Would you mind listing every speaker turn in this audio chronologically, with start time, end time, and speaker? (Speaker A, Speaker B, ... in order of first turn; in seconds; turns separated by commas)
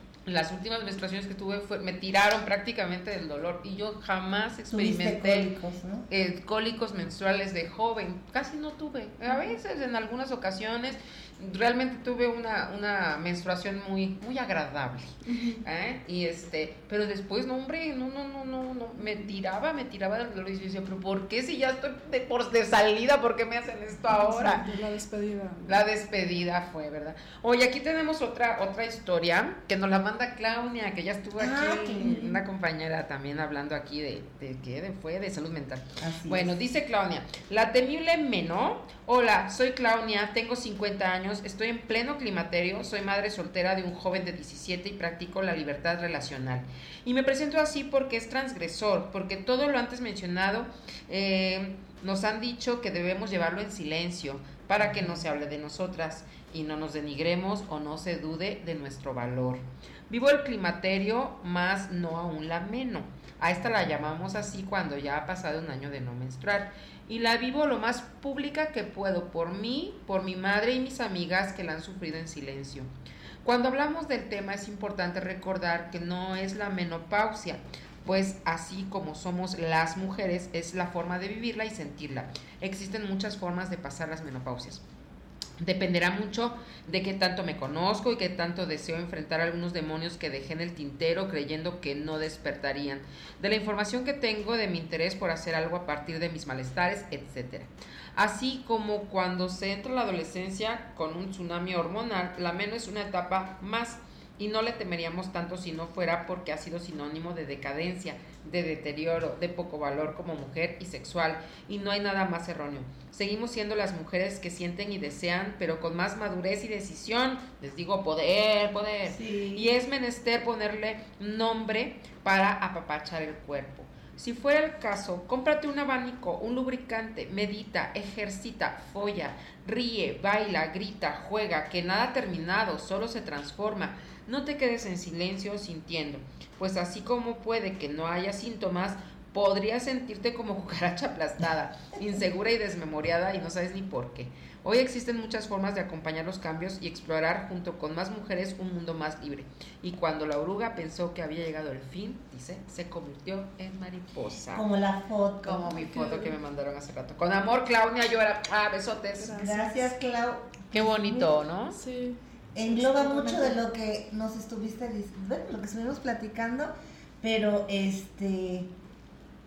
Speaker A: 0.3-5.5, Speaker B: 4.7-6.1, Speaker A: 6.1-15.1, Speaker C: 15.2-15.6, Speaker A: 15.7-24.6, Speaker C: 24.1-25.8, Speaker A: 25.7-72.9, Speaker B: 31.4-32.4, Speaker B: 36.0-36.6, Speaker B: 54.8-55.2, Speaker A: 73.4-84.8, Speaker A: 85.6-154.7, Speaker B: 119.0-119.7, Speaker B: 154.5-155.8, Speaker A: 155.4-159.4, Speaker C: 155.8-156.3, Speaker C: 159.2-160.2, Speaker B: 159.3-161.1, Speaker A: 160.7-161.8, Speaker C: 161.7-162.2, Speaker B: 162.6-168.7, Speaker C: 162.7-163.6